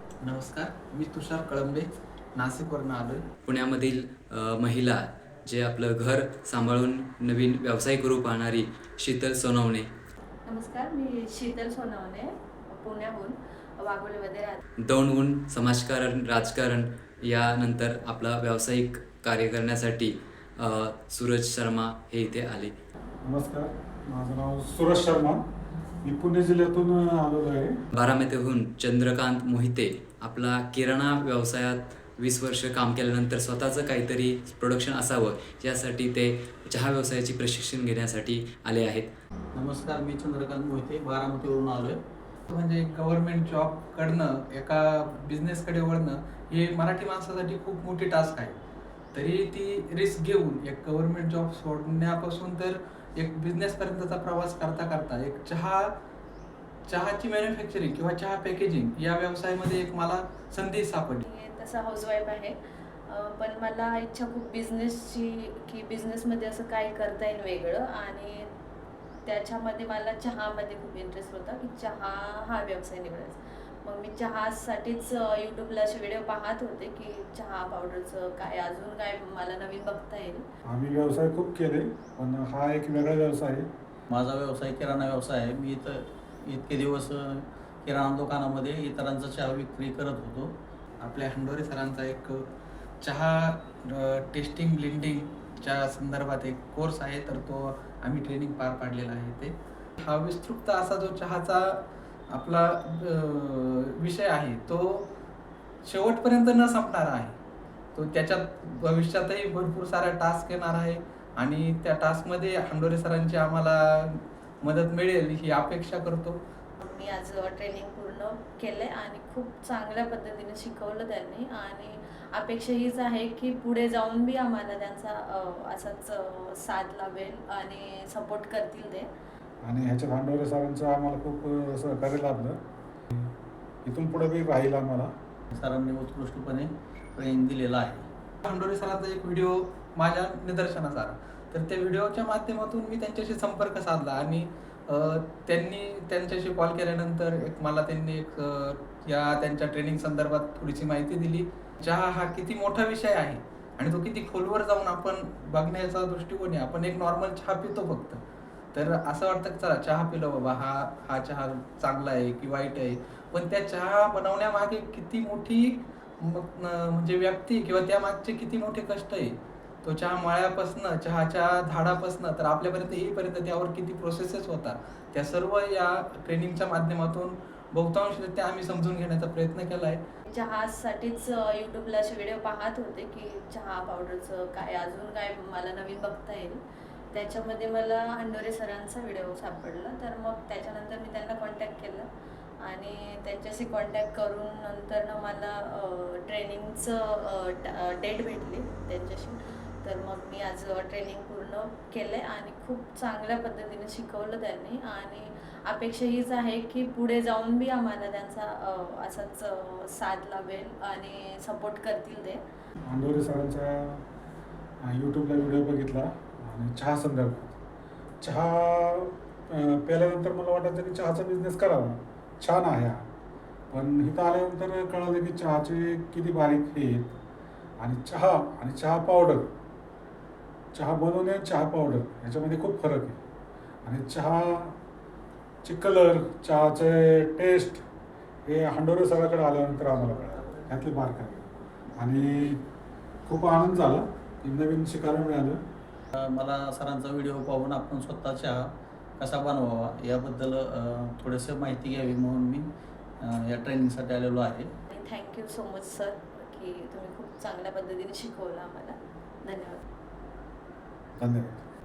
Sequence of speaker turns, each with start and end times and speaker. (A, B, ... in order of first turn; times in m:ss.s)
0:00.2-0:03.3 A
0:03.4-0:09.9 B
0:10.4-0:14.6 C
0:14.8-0:22.7 B
0:23.2-0:25.4 D
0:26.0-0:27.8 D
0:27.9-0:39.1 B
0:39.5-0:42.0 E
0:42.5-0:48.6 A
0:49.1-0:55.9 A
0:56.9-1:01.2 A
1:01.2-1:08.5 C
1:09.2-1:20.4 C
1:20.6-1:23.7 D
1:24.1-1:30.5 E
1:31.0-1:32.5 A
1:33.0-1:45.1 A
1:45.8-1:47.3 A
1:47.9-1:56.4 A
1:56.8-2:09.1 C
2:09.6-2:12.6 D
2:13.8-2:15.1 D
2:15.5-2:18.1 E
2:18.4-2:38.2 A
2:38.7-3:00.0 A
3:00.3-3:06.6 C
3:07.1-3:12.1 C
3:12.6-3:32.4 C
3:32.8-3:34.0 D
3:34.8-3:37.6 D
3:38.2-3:43.0 D
3:43.7-3:47.2 D
3:47.8-3:49.5 D
3:50.7-3:53.2 D
3:53.8-3:54.8 D
3:55.6-3:57.8 D
3:58.4-4:02.6 D
4:03.2-4:05.6 D
4:06.1-4:12.7 E
4:13.2-4:14.7 E
4:14.9-4:19.8 C
4:21.2-4:21.6 D